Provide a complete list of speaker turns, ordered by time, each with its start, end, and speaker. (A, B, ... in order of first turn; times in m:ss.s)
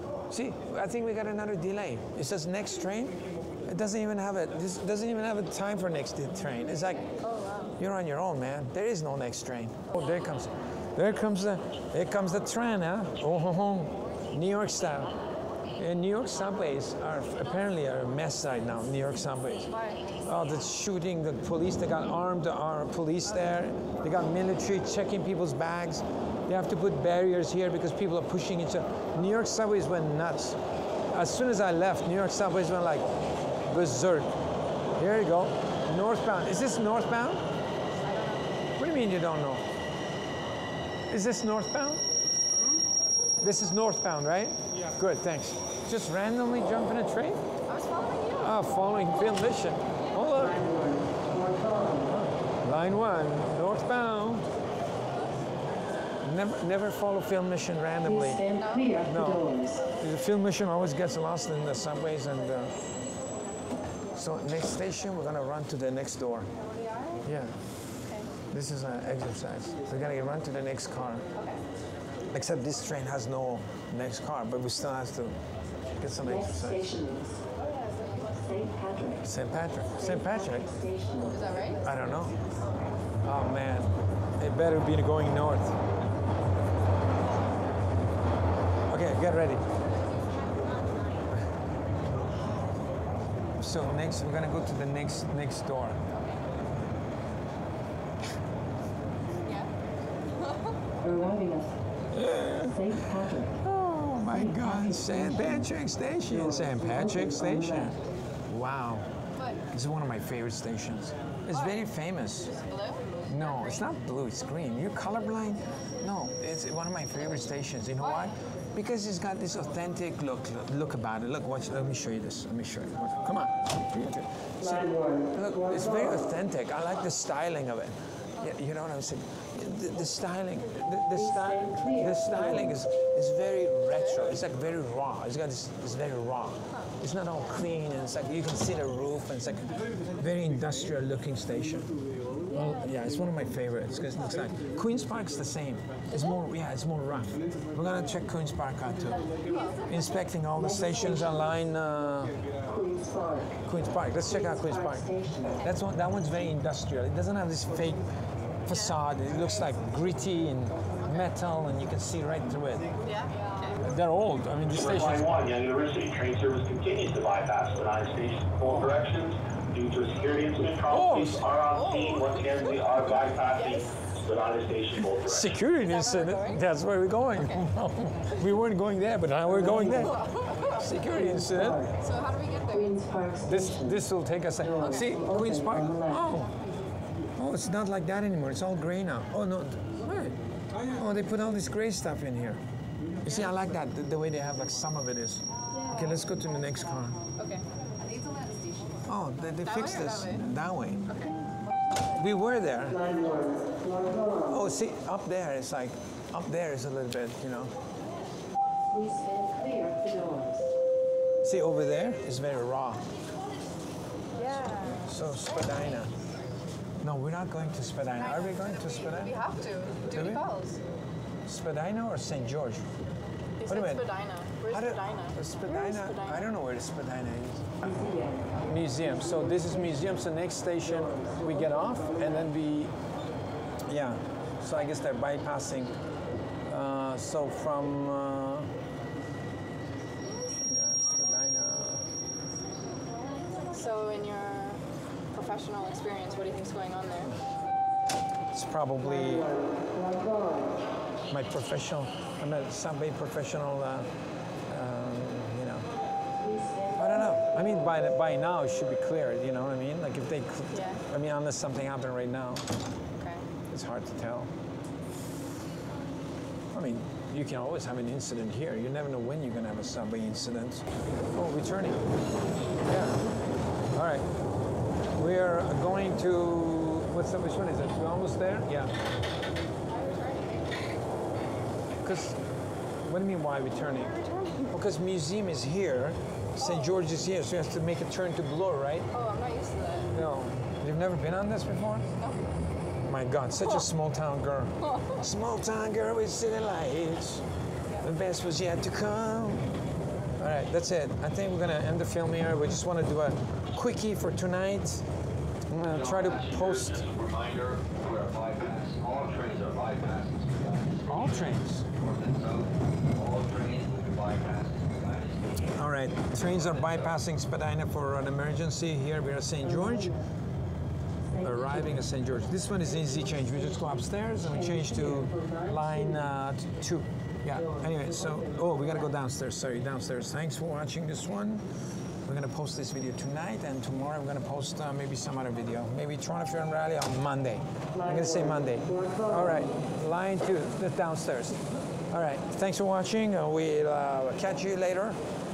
0:00.3-0:07.1 A
0:07.0-0:07.7 B
0:07.8-0:15.1 A
0:15.8-0:30.6 A
0:19.6-0:20.0 B
0:31.1-0:33.0 A
0:33.7-0:34.4 A
0:35.0-0:37.4 A
0:38.0-0:38.5 B
0:38.8-0:39.6 A
0:41.1-0:42.0 A
0:43.4-0:47.4 A
0:47.7-0:48.6 B
0:48.4-0:50.7 A
0:50.5-0:52.0 C
0:52.1-0:54.5 A
0:56.2-1:02.7 A
0:58.3-0:59.8 C
0:58.6-0:59.0 B
1:04.1-1:06.5 A
1:06.6-1:07.2 B
1:07.2-1:07.6 A
1:08.0-1:08.3 B
1:08.5-1:11.2 A
1:11.3-1:11.6 B
1:12.3-1:15.4 A
1:16.0-1:17.0 A
1:16.8-1:17.4 C
1:17.6-1:18.4 B
1:18.5-1:19.2 C
1:19.2-1:20.7 A
1:20.5-1:21.3 C
1:21.2-1:21.8 B
1:21.8-1:22.4 A
1:23.2-1:25.8 A
1:28.9-1:29.6 A
1:33.6-1:36.0 A
1:36.1-1:36.4 B
1:39.4-1:39.7 B
1:40.4-1:40.7 B
1:41.0-1:41.7 C
1:42.1-1:42.8 A
1:42.7-1:43.5 C
1:43.4-1:49.1 A
1:44.6-1:45.4 C
1:46.7-1:47.6 C
1:49.7-1:52.5 A
1:51.5-1:51.9 B
1:52.5-1:53.7 B
1:53.3-2:21.9 A
1:58.0-1:58.3 B
2:04.9-2:05.1 C
2:22.5-2:32.4 A
2:29.2-2:29.8 B
2:32.7-2:33.5 C
2:33.6-2:38.0 A
2:35.0-2:35.6 C
2:38.6-2:42.9 A
2:43.0-2:43.8 B
2:43.8-2:45.3 A
2:44.8-2:55.5 D
2:50.9-2:51.5 A
2:51.7-2:52.8 B
2:53.5-2:54.0 B
2:55.2-3:01.8 A
2:55.8-2:56.6 B
2:57.3-2:57.6 B
3:00.0-3:00.8 B
3:01.3-3:01.8 C
3:02.0-3:03.0 B
3:02.7-3:03.7 C
3:03.4-3:06.5 A
3:04.6-3:06.2 C
3:07.4-3:10.3 A
3:10.9-3:12.6 A
3:13.2-3:17.2 A
3:15.7-3:16.2 B
3:17.4-3:17.6 B
3:18.1-3:18.7 B
3:19.0-3:21.1 A
3:19.6-3:20.4 B
3:21.1-3:21.5 B
3:22.1-3:23.0 A
3:23.1-3:24.4 C
3:24.5-3:27.7 A
3:28.9-3:30.7 C
3:31.4-3:33.0 A
3:34.4-3:35.1 B
3:35.0-3:36.1 A
3:37.0-3:39.4 A
3:38.2-3:40.8 B
3:40.1-3:40.4 A
3:41.4-3:42.8 A
3:43.6-3:46.4 B
3:43.7-3:44.0 A
3:44.6-3:47.9 A
3:48.0-3:48.4 C
3:48.6-3:52.9 A
3:53.9-3:56.0 A
3:56.7-3:58.7 A
4:00.6-4:02.1 A
4:03.7-4:07.3 B
4:08.5-4:09.6 A
4:10.1-4:10.6 C
4:11.3-4:14.1 A
4:14.7-4:15.9 A
4:17.0-4:22.6 A
4:20.7-4:21.0 B
4:23.2-4:23.4 B
4:23.7-4:24.5 A
4:26.7-4:32.0 A
4:32.8-4:33.2 A
4:33.9-4:34.3 A
4:35.2-4:38.9 A
4:39.9-4:40.7 B
4:42.0-4:42.4 A
4:43.0-4:44.1 A
4:43.8-4:44.7 B
4:44.7-4:49.1 A
4:46.6-4:47.0 B
4:49.1-4:50.1 B
4:50.1-4:52.0 A
4:53.0-4:57.4 A
4:54.8-4:55.2 B
4:58.0-4:59.7 A
5:00.4-5:05.0 A
5:05.7-5:07.1 A
5:05.9-5:15.5 E
5:11.1-5:11.9 A
5:15.7-5:20.2 A
5:16.4-5:17.1 E
5:21.4-5:31.6 A
5:25.2-5:25.6 C
5:32.2-5:45.2 A